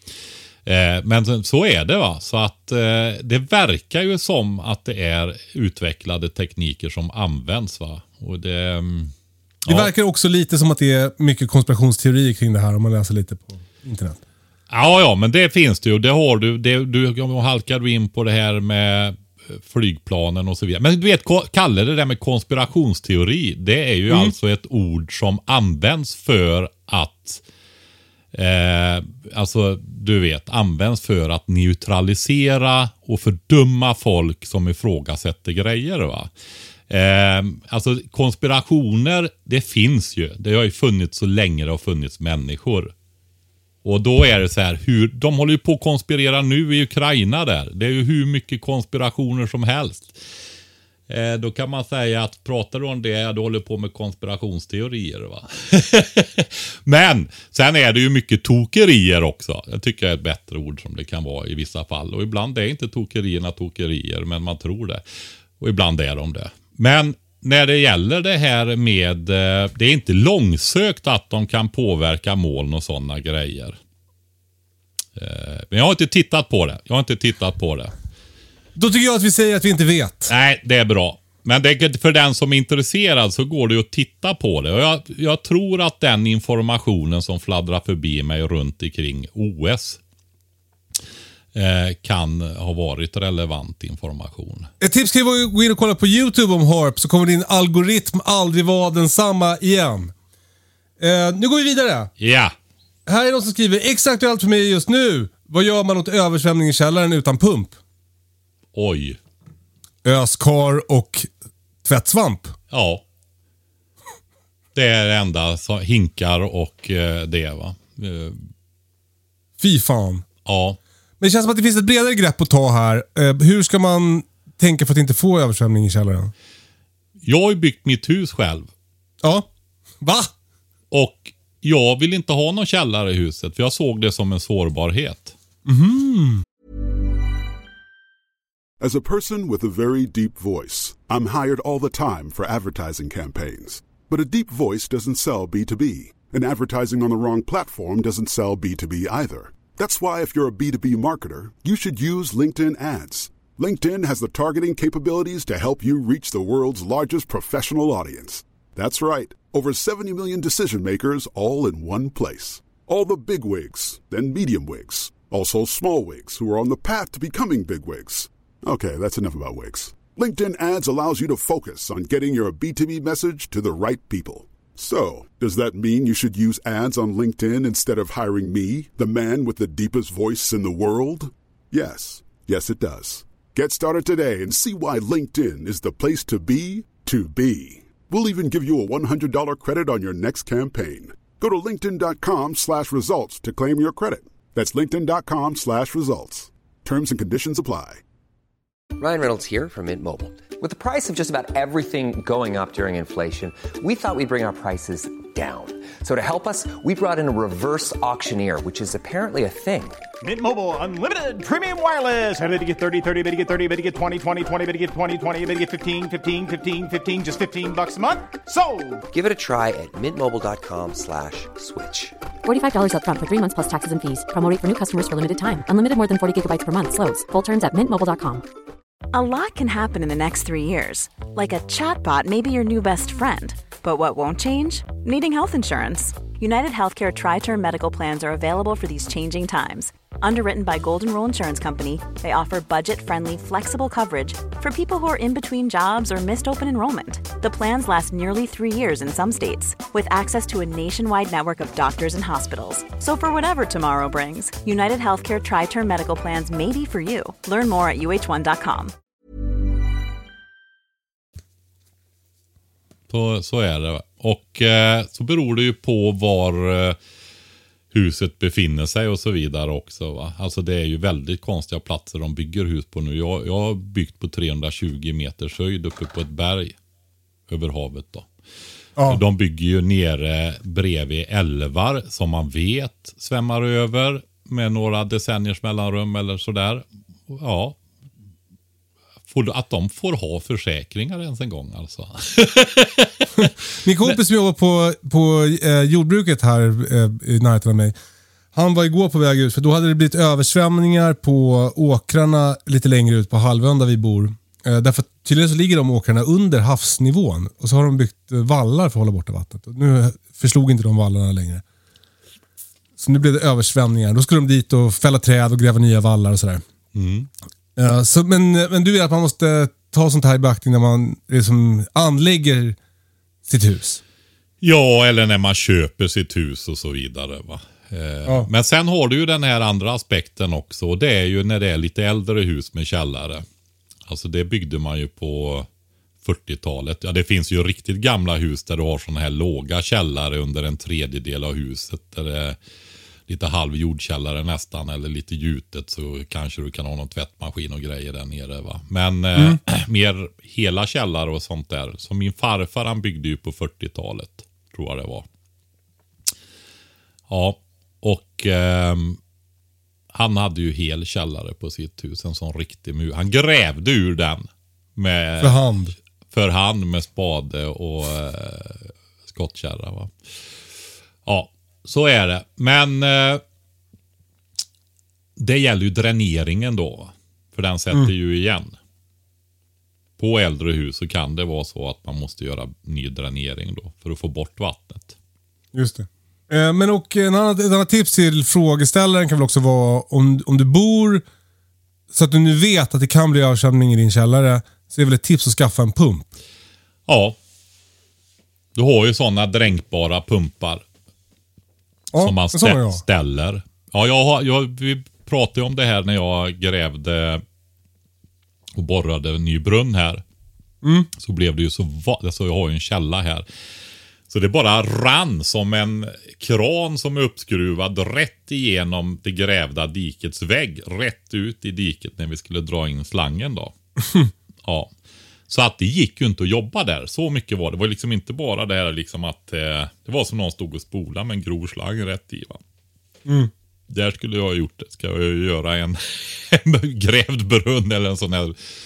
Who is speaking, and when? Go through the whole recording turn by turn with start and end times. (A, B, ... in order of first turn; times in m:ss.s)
0:00.6-0:09.1 A
0:09.7-0:14.2 B
0:14.7-0:27.4 A
0:24.1-0:24.3 B
0:28.3-0:36.3 A
0:36.9-0:42.9 A
0:43.8-0:50.2 A
0:51.1-1:05.0 A
1:05.6-1:13.8 A
1:15.2-1:17.9 A
1:18.8-1:20.3 B
1:20.3-1:30.0 A
1:31.5-1:34.7 A
1:34.8-1:40.1 B
1:41.0-1:42.1 B
1:42.2-1:42.5 A
1:43.0-1:47.8 B
1:48.7-1:49.2 A
1:50.0-1:51.3 B
1:51.8-1:52.6 B
1:52.7-1:53.0 A
1:54.7-1:58.5 A
1:59.6-2:00.2 B
2:00.4-2:00.8 A
2:01.2-2:06.3 B
2:07.2-2:08.7 A
2:09.2-2:09.5 B
2:10.0-2:10.3 B
2:10.9-2:15.3 A
2:15.6-2:16.4 B
2:18.8-3:18.0 C
3:19.0-3:30.0 D
3:30.2-3:39.0 E
3:39.1-3:42.1 D
3:42.4-3:48.4 F
3:49.1-4:18.9 G
4:23.1-4:27.0 A
4:27.9-4:36.7 A
4:37.5-4:38.3 A
4:39.0-4:39.2 B
4:39.1-4:47.8 A
4:49.3-4:53.5 A
4:53.8-4:57.9 B
4:58.5-5:11.6 B
5:13.0-5:16.6 B
5:16.9-5:17.3 A
5:17.8-5:22.8 B
5:23.4-5:24.0 B
5:24.6-5:33.4 A
5:34.1-5:35.7 A
5:36.2-5:42.6 A
5:43.3-5:55.2 A
5:49.3-5:49.6 B
5:57.3-5:59.2 A
6:00.1-6:05.7 A
6:05.4-6:05.9 B
6:06.3-6:10.1 A
6:11.2-6:13.4 A
6:15.4-6:18.7 A
6:20.2-6:25.1 A
6:25.7-6:31.2 B
6:32.1-6:36.3 B
6:37.1-6:37.4 A
6:38.7-6:40.8 A
6:42.1-6:43.0 B
6:42.2-6:47.4 A
6:48.7-6:50.2 A
6:50.8-6:51.1 B
6:51.2-6:53.4 A
6:54.3-7:03.7 A
7:04.6-7:04.9 A
7:05.5-7:12.6 A
7:13.2-7:13.5 B
7:13.9-7:18.5 A